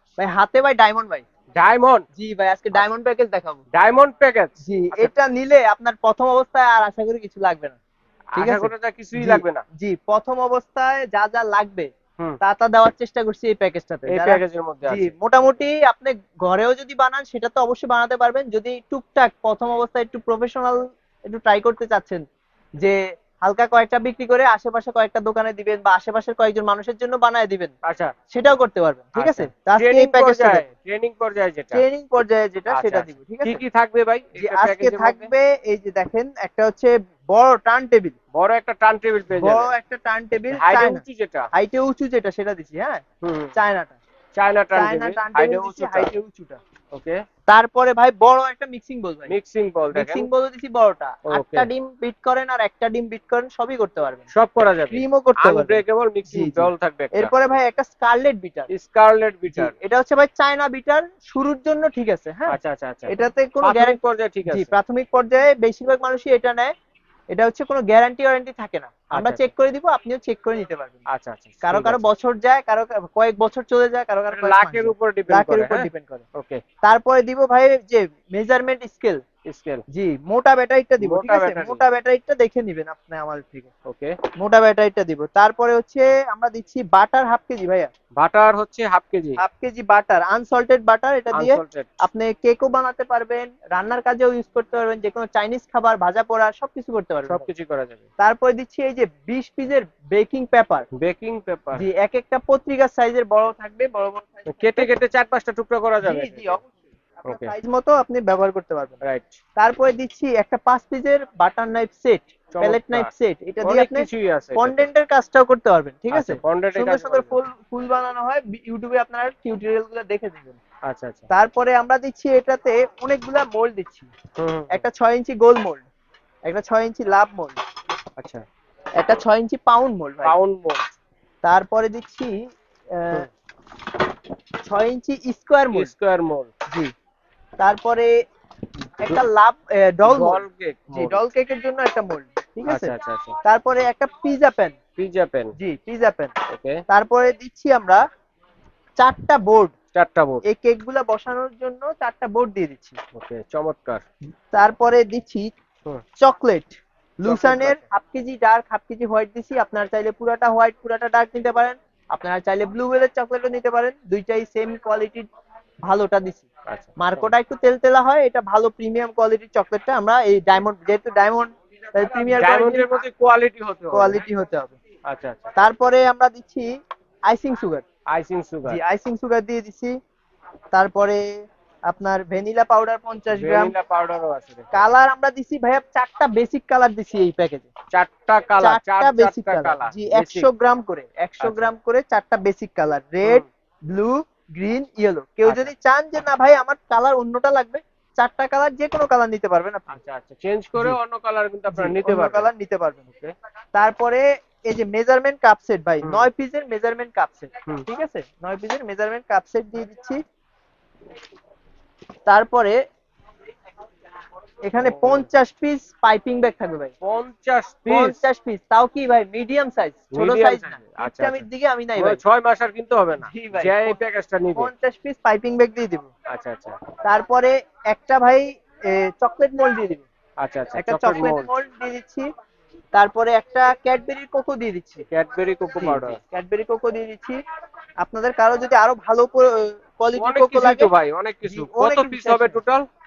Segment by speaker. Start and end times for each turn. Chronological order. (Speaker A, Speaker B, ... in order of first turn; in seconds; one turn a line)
Speaker A: 0.2-1.2
Speaker B: 1.5-2.0
Speaker A: 2.1-3.6
Speaker B: 3.7-5.1
Speaker A: 4.6-7.8
Speaker B: 8.3-9.6
Speaker A: 8.3-11.9
Speaker A: 12.4-20.8
Speaker B: 14.1-15.1
Speaker A: 21.3-22.2
Speaker A: 22.8-27.7
Speaker B: 27.8-28.1
Speaker A: 28.3-30.6
Speaker B: 29.1-31.8
Speaker A: 31.7-33.6
Speaker B: 32.7-35.3
Speaker A: 34.4-38.1
Speaker B: 38.3-39.7
Speaker A: 39.3-41.0
Speaker B: 40.5-41.5
Speaker A: 41.5-43.0
Speaker B: 43.2-43.5
Speaker A: 43.5-44.0
Speaker B: 44.4-46.1
Speaker A: 44.7-46.6
Speaker B: 46.9-47.2
Speaker A: 47.5-49.4
Speaker B: 49.3-50.3
Speaker A: 49.9-54.3
Speaker B: 51.3-51.7
Speaker B: 54.3-57.3
Speaker A: 54.9-58.7
Speaker B: 58.7-59.7
Speaker A: 59.5-62.6
Speaker B: 62.5-63.1
Speaker A: 63.1-66.7
Speaker B: 63.6-64.7
Speaker A: 67.3-71.0
Speaker B: 69.1-69.5
Speaker B: 71.1-72.0
Speaker A: 71.6-76.2
Speaker B: 74.3-76.6
Speaker A: 76.8-79.2
Speaker B: 79.5-79.8
Speaker A: 79.9-83.7
Speaker B: 81.0-81.8
Speaker B: 83.8-84.2
Speaker A: 84.4-87.9
Speaker B: 88.2-89.4
Speaker A: 89.4-97.5
Speaker B: 91.3-92.0
Speaker B: 97.3-98.0
Speaker A: 98.2-100.9
Speaker B: 101.0-101.8
Speaker A: 101.7-104.9
Speaker B: 104.5-106.6
Speaker A: 106.0-109.0
Speaker B: 107.2-107.5
Speaker B: 109.0-109.4
Speaker A: 109.6-120.6
Speaker B: 112.5-113.1
Speaker B: 113.6-114.9
Speaker B: 116.1-117.4
Speaker B: 120.8-121.3
Speaker A: 121.3-124.1
Speaker B: 124.4-124.8
Speaker A: 124.7-125.8
Speaker A: 126.5-127.6
Speaker B: 128.2-128.4
Speaker A: 129.0-130.4
Speaker B: 130.2-130.9
Speaker A: 131.4-132.3
Speaker A: 133.0-133.3
Speaker A: 134.7-135.9
Speaker B: 135.7-136.5
Speaker A: 137.6-138.1
Speaker A: 139.0-142.9
Speaker B: 140.1-141.3
Speaker B: 142.7-143.4
Speaker A: 143.4-144.8
Speaker B: 145.0-145.5
Speaker A: 145.6-146.3
Speaker B: 146.5-146.8
Speaker A: 146.9-148.0
Speaker A: 149.0-149.7
Speaker B: 149.9-150.4
Speaker A: 150.4-152.9
Speaker B: 153.1-154.0
Speaker A: 154.5-155.5
Speaker A: 156.2-165.3
Speaker B: 157.2-157.8
Speaker A: 165.9-166.4
Speaker B: 166.7-167.3
Speaker A: 167.0-173.0
Speaker B: 172.3-174.2
Speaker A: 173.9-174.8
Speaker B: 175.1-175.5
Speaker A: 175.6-176.7
Speaker A: 177.3-177.8
Speaker B: 178.1-178.8
Speaker A: 178.7-179.9
Speaker A: 180.7-181.3
Speaker A: 181.9-183.7
Speaker B: 183.3-184.7
Speaker A: 184.7-187.7
Speaker B: 187.9-190.5
Speaker A: 188.6-199.9
Speaker B: 191.4-191.7
Speaker B: 195.4-195.7
Speaker B: 199.9-202.5
Speaker A: 201.7-203.0
Speaker B: 203.1-203.3
Speaker A: 203.7-210.2
Speaker B: 206.0-206.3
Speaker A: 212.3-212.7
Speaker A: 214.7-216.9
Speaker B: 214.8-215.3
Speaker B: 217.0-218.2
Speaker A: 217.9-222.2
Speaker B: 220.1-221.4
Speaker B: 221.9-224.7
Speaker A: 223.2-224.0
Speaker A: 224.6-226.1
Speaker B: 226.3-226.8
Speaker A: 227.1-230.0
Speaker B: 230.4-231.5
Speaker A: 230.7-232.2
Speaker A: 232.9-235.1
Speaker B: 235.1-236.2
Speaker A: 235.8-237.4
Speaker A: 238.0-240.9
Speaker B: 240.2-242.8
Speaker A: 241.4-242.6